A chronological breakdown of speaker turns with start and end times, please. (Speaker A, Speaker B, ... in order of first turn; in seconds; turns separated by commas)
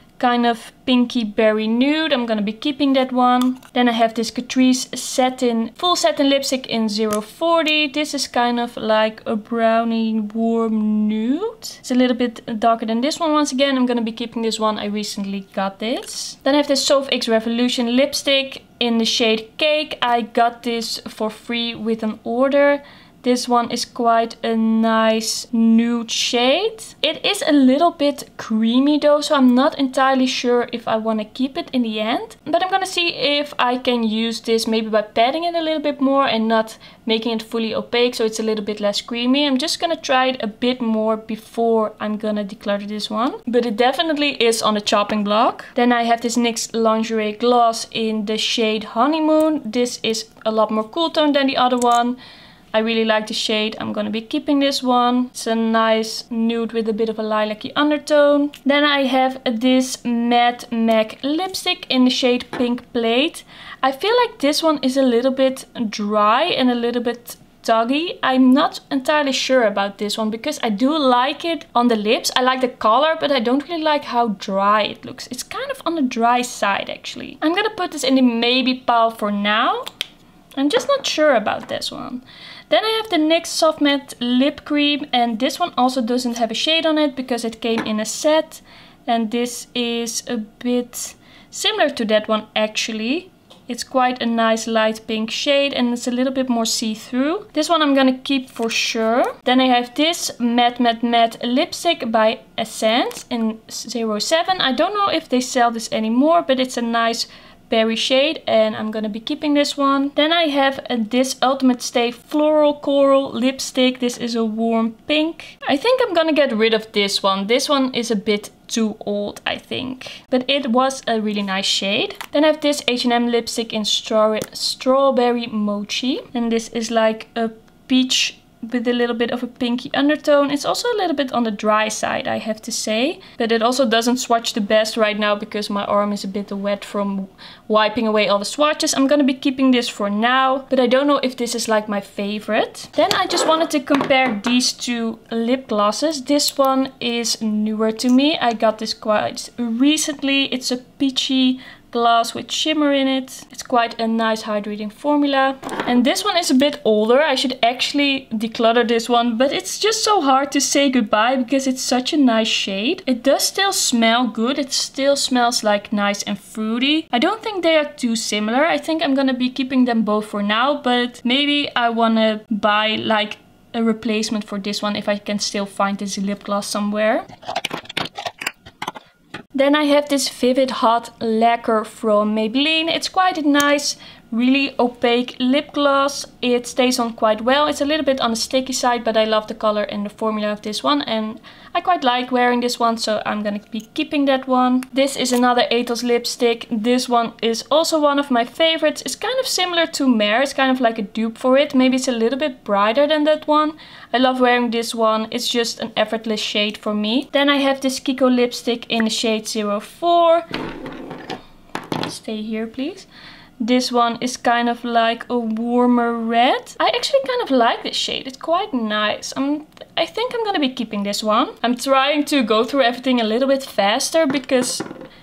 Speaker A: 0.2-52.2, Speaker A: 52.7-79.8, Speaker A: 80.6-177.2, Speaker A: 179.5-210.4, Speaker A: 212.0-213.1, Speaker A: 213.6-224.8